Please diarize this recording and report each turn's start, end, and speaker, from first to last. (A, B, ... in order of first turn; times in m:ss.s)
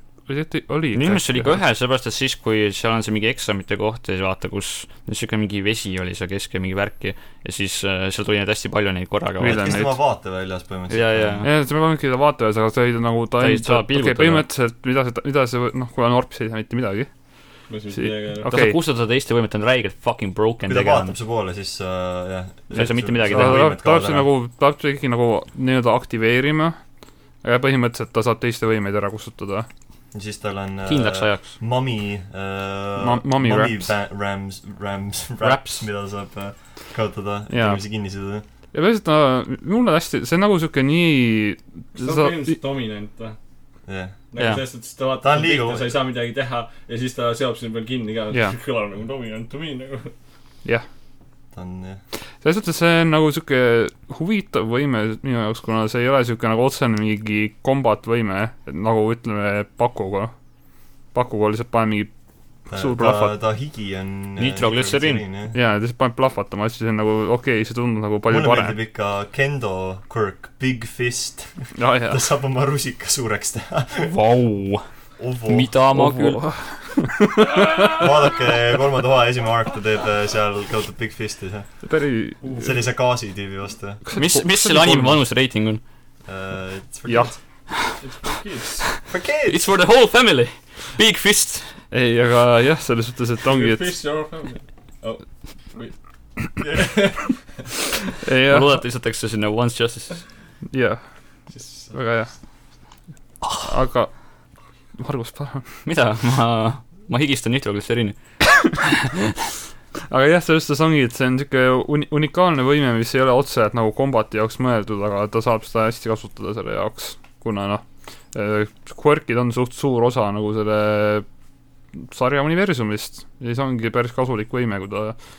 0:00.3-0:01.6 A
0:00.9-0:09.7 B
0:09.4-0:10.0 A
0:09.4-0:11.5 C
0:10.9-0:11.5 B
0:11.4-0:17.1 A
0:13.4-0:14.5 B
0:17.7-0:18.5 D
0:17.9-0:18.8 A
0:18.5-0:21.2 B
0:20.7-0:24.3 C
0:22.7-0:23.7 B
0:23.3-0:26.8 A
0:27.4-0:29.7 A
0:30.1-0:38.4 C
0:30.9-0:31.6 B
0:33.0-0:33.9 A
0:35.4-0:35.9 B
0:37.5-0:37.8 A
0:38.7-0:42.6 A
0:42.0-0:43.4 D
0:43.9-0:44.2 C
0:44.3-0:50.1 D
0:44.4-0:44.6 B
0:45.2-0:45.9 C
0:51.5-0:52.0 C
0:52.4-1:00.3 A
1:01.1-1:02.1 A
1:02.7-1:03.3 A
1:02.7-1:05.6 C
1:04.4-1:05.2 B
1:05.5-1:08.8 A
1:08.3-1:14.1 C
1:11.8-1:12.2 A
1:14.0-1:14.9 B
1:15.2-1:15.7 C
1:15.5-1:16.4 B
1:15.9-1:18.1 A
1:17.8-1:21.7 C
1:21.8-1:22.7 A
1:22.4-1:24.0 C
1:24.1-1:25.2 A
1:24.2-1:25.8 B
1:26.3-1:27.4 C
1:27.1-1:27.3 A
1:27.7-1:28.0 B
1:28.0-1:28.8 D
1:29.0-1:31.8 B
1:29.1-1:29.7 C
1:31.9-1:33.9 A
1:33.5-1:37.7 D
1:38.2-1:38.8 A
1:38.5-1:40.2 B
1:40.7-1:41.0 A
1:41.5-1:42.0 D
1:41.9-1:42.3 A
1:43.4-1:43.7 B
1:43.6-1:44.1 A
1:45.0-1:45.8 A
1:45.8-1:48.9 B
1:50.1-2:01.3 A
2:02.0-2:05.2 A